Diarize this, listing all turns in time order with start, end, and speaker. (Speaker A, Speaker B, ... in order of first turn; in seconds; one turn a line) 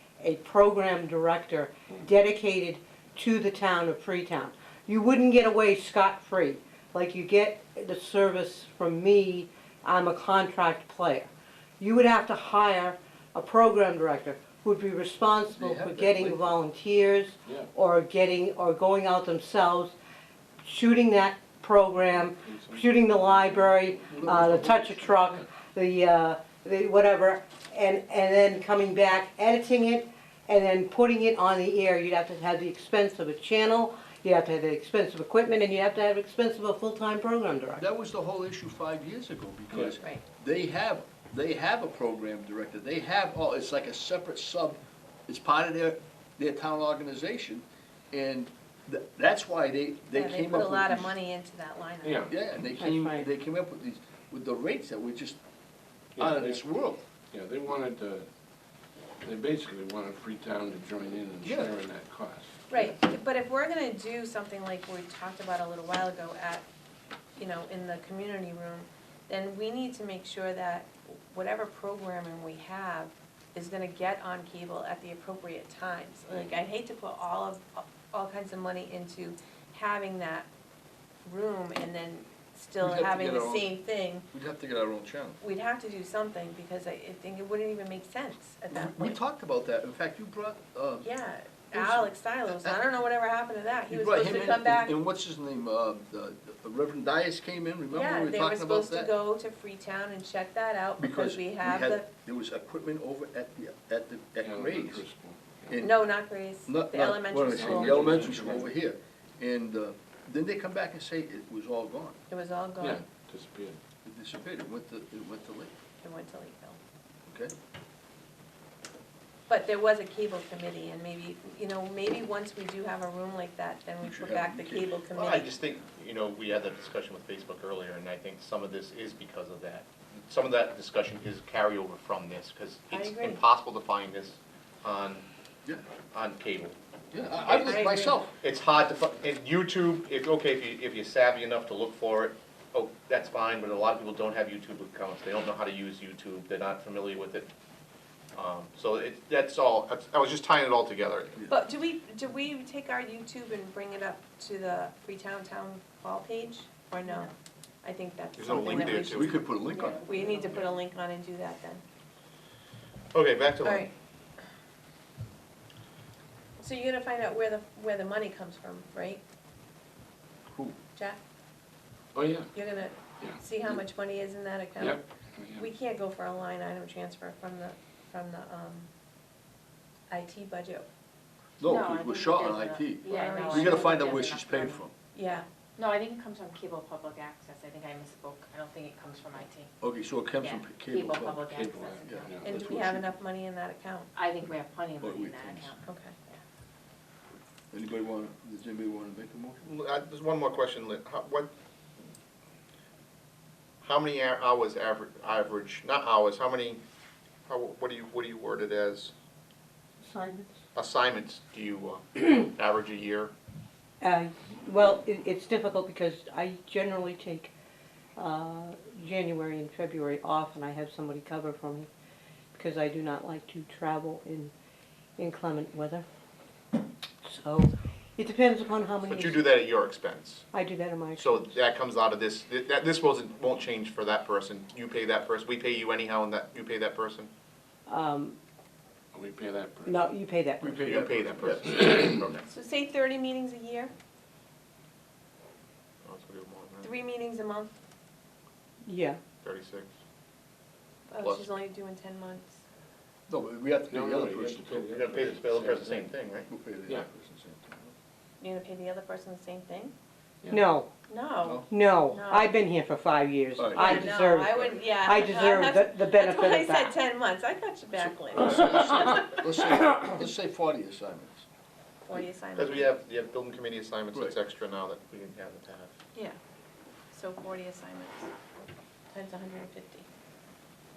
Speaker A: 0.2-11.3
Speaker A: 11.8-19.9
Speaker B: 15.5-16.5
Speaker A: 20.6-37.8
Speaker C: 22.0-24.7
Speaker B: 24.1-25.1
Speaker B: 37.8-51.1
Speaker D: 50.1-52.3
Speaker C: 52.0-52.3
Speaker B: 52.3-55.4
Speaker A: 52.8-53.3
Speaker C: 56.2-56.6
Speaker B: 56.2-57.0
Speaker C: 57.3-58.3
Speaker C: 59.2-62.9
Speaker B: 61.4-61.7
Speaker D: 62.7-66.7
Speaker D: 67.4-80.5
Speaker D: 81.2-84.3
Speaker B: 82.8-83.8
Speaker B: 84.3-85.4
Speaker D: 85.4-89.2
Speaker B: 88.7-91.1
Speaker D: 91.0-94.9
Speaker B: 91.7-92.8
Speaker B: 93.9-99.1
Speaker D: 97.9-102.1
Speaker B: 101.0-105.0
Speaker C: 104.4-105.8
Speaker B: 105.7-106.0
Speaker D: 105.8-108.1
Speaker B: 106.7-112.2
Speaker C: 107.3-108.7
Speaker D: 112.3-113.0
Speaker C: 112.8-113.8
Speaker B: 114.0-115.7
Speaker D: 116.0-116.8
Speaker B: 117.3-117.5
Speaker D: 119.5-125.5
Speaker B: 124.0-125.0
Speaker E: 125.2-135.3
Speaker D: 132.9-133.4
Speaker E: 136.1-136.8
Speaker B: 137.1-138.3
Speaker E: 137.4-147.5
Speaker D: 137.6-138.2
Speaker E: 148.3-151.4
Speaker D: 151.5-157.3
Speaker D: 157.8-159.4
Speaker E: 158.4-159.4
Speaker B: 158.7-160.0
Speaker F: 159.7-160.8
Speaker D: 160.0-161.8
Speaker E: 163.1-163.9
Speaker D: 163.6-163.9
Speaker D: 166.6-169.2
Speaker B: 170.5-170.8
Speaker C: 172.1-172.5
Speaker D: 172.5-175.1
Speaker C: 174.8-175.7
Speaker D: 175.6-178.9
Speaker D: 180.1-180.8
Speaker B: 181.6-184.9
Speaker F: 181.6-184.9
Speaker D: 183.1-184.1
Speaker D: 185.1-185.5
Speaker F: 185.8-189.7
Speaker B: 189.8-191.5
Speaker F: 190.3-192.3
Speaker C: 191.5-192.6
Speaker B: 192.0-193.1
Speaker D: 192.4-194.1
Speaker F: 194.2-196.4
Speaker B: 195.0-195.7
Speaker D: 195.8-196.2
Speaker B: 197.7-199.7
Speaker E: 199.6-201.5
Speaker E: 203.8-206.8
Speaker E: 207.5-209.1
Speaker A: 210.0-210.6
Speaker E: 210.8-213.3
Speaker A: 214.0-217.5
Speaker A: 218.2-221.9
Speaker A: 222.6-224.5
Speaker A: 225.2-226.1
Speaker A: 227.2-229.4
Speaker E: 229.0-230.5
Speaker A: 230.5-231.4
Speaker E: 231.2-237.3
Speaker A: 237.9-238.4
Speaker C: 239.1-240.1
Speaker A: 239.9-240.9
Speaker B: 240.6-241.8
Speaker E: 240.7-242.5
Speaker D: 242.5-243.9
Speaker E: 246.1-246.9
Speaker D: 246.8-247.7
Speaker A: 248.8-249.2
Speaker E: 249.4-249.9
Speaker D: 251.1-252.6
Speaker E: 251.2-251.5
Speaker B: 253.3-255.0
Speaker C: 253.9-256.1
Speaker E: 254.9-256.5
Speaker B: 256.5-257.9
Speaker D: 258.4-259.9
Speaker A: 260.5-260.9
Speaker D: 261.1-262.5
Speaker B: 261.4-261.7
Speaker A: 261.7-267.0
Speaker B: 263.6-264.7
Speaker D: 263.7-269.4
Speaker B: 267.9-271.5
Speaker D: 272.1-272.9
Speaker E: 272.6-275.9
Speaker D: 277.1-278.3
Speaker D: 279.1-280.1